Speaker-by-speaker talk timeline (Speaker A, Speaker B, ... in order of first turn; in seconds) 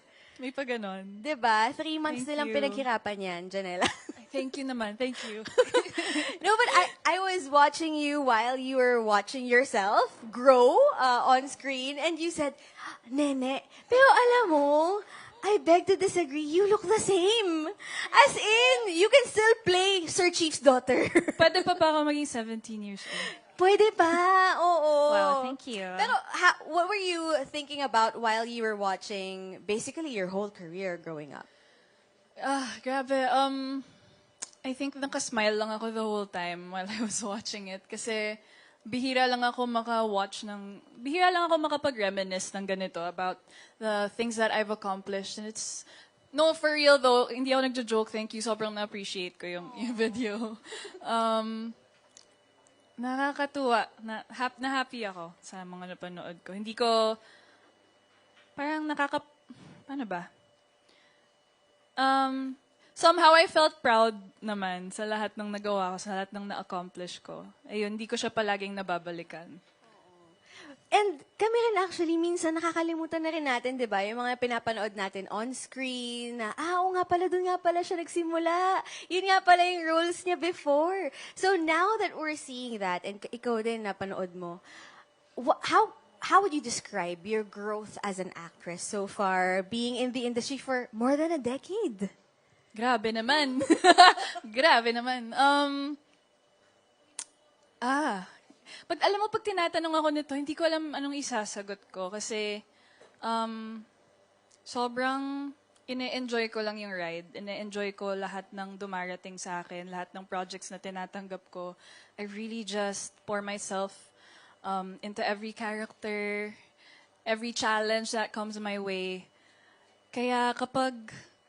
Speaker A: 0.4-1.2, 2.1-2.9, 4.2-6.8, 21.4-23.3, 25.1-26.1, 32.4-33.9, 34.6-51.8, 53.0-57.2, 58.6-60.3, 62.0-69.6, 92.7-96.0, 97.8-98.3, 98.9-102.6, 103.2-103.9, 104.7-114.1, 114.6-116.6, 117.3-119.3, 120.1-121.1
Speaker B: 1.2-3.9, 5.3-21.7, 23.4-31.5, 70.0-70.3, 70.9-84.6, 85.4-92.1